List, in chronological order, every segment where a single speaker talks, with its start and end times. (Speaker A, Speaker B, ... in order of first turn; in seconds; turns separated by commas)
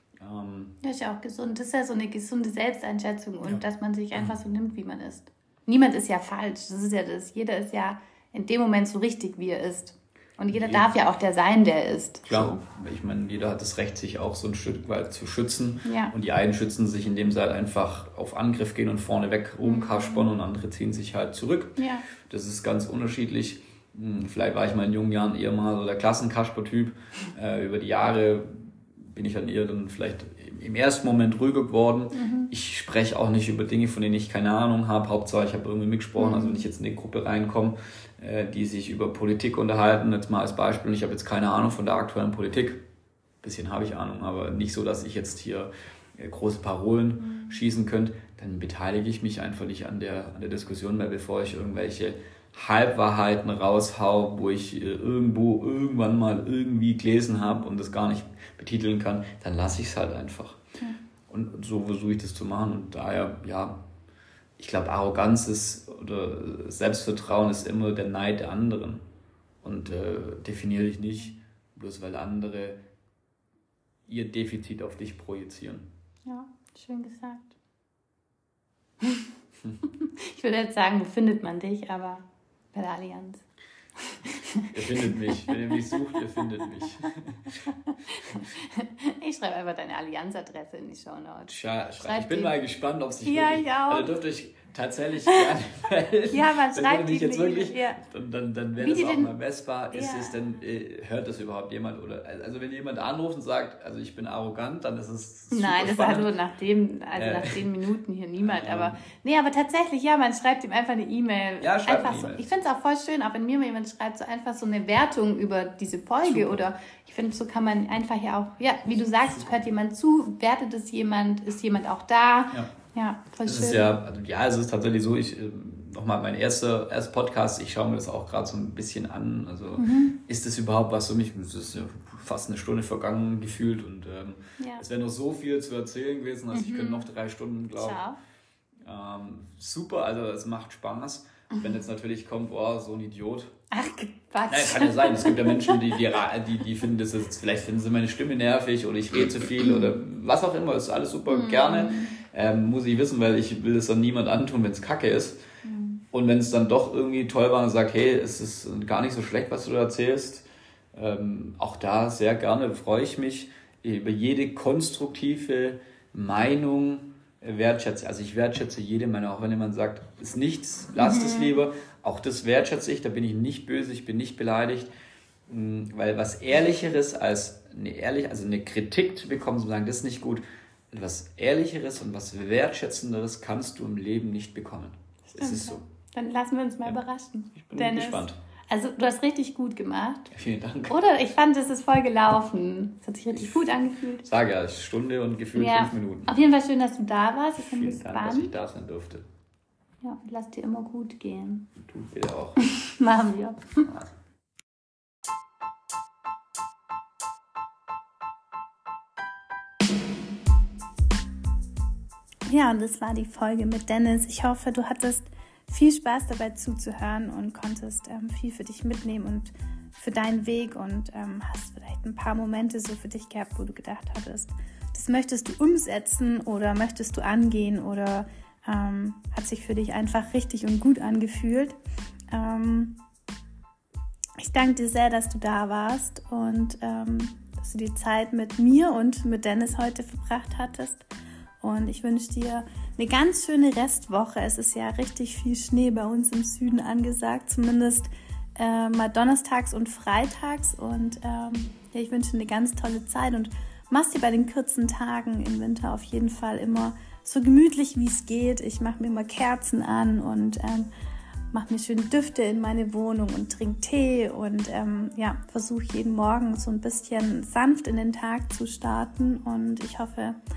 Speaker A: 0.2-0.8, Speaker B: 0.8-12.5, Speaker A: 10.5-10.9, Speaker A: 12.3-42.8, Speaker B: 15.8-16.1, Speaker B: 19.6-20.3, Speaker B: 21.8-22.1, Speaker B: 32.1-32.5, Speaker B: 36.2-36.7, Speaker A: 43.4-60.6, Speaker B: 47.2-47.6, Speaker A: 61.3-63.8, Speaker A: 64.6-69.0, Speaker A: 69.6-72.8, Speaker A: 74.1-75.9, Speaker B: 76.3-77.5, Speaker B: 79.0-79.3, Speaker B: 80.0-83.4, Speaker B: 84.0-86.0, Speaker A: 84.7-87.6, Speaker B: 87.6-92.6, Speaker A: 91.5-106.3, Speaker B: 93.2-94.2, Speaker B: 96.3-98.0, Speaker B: 98.8-99.3, Speaker B: 99.9-100.4, Speaker B: 105.5-123.9, Speaker A: 107.1-107.7, Speaker A: 108.4-109.0, Speaker A: 111.6-112.5, Speaker A: 116.2-116.6, Speaker A: 123.5-138.0, Speaker B: 129.8-130.2, Speaker B: 134.6-134.8, Speaker B: 136.5-137.1, Speaker B: 137.8-138.2, Speaker A: 138.8-143.5, Speaker B: 143.7-146.0, Speaker A: 144.5-155.4, Speaker B: 149.6-150.0, Speaker B: 151.3-152.2, Speaker B: 155.7-156.0, Speaker A: 156.1-174.9, Speaker B: 171.0-171.6, Speaker A: 175.5-185.8, Speaker B: 185.3-190.3, Speaker A: 187.6-188.4, Speaker A: 190.3-191.0, Speaker B: 190.9-194.3, Speaker A: 193.3-193.7, Speaker A: 194.2-196.3, Speaker B: 195.6-198.5, Speaker A: 197.6-199.3, Speaker B: 200.0-201.7, Speaker A: 201.8-202.6, Speaker B: 202.6-203.9, Speaker A: 203.8-204.1, Speaker B: 212.5-231.8, Speaker B: 232.3-233.0, Speaker B: 234.4-241.1, Speaker B: 241.6-260.9, Speaker B: 261.5-270.4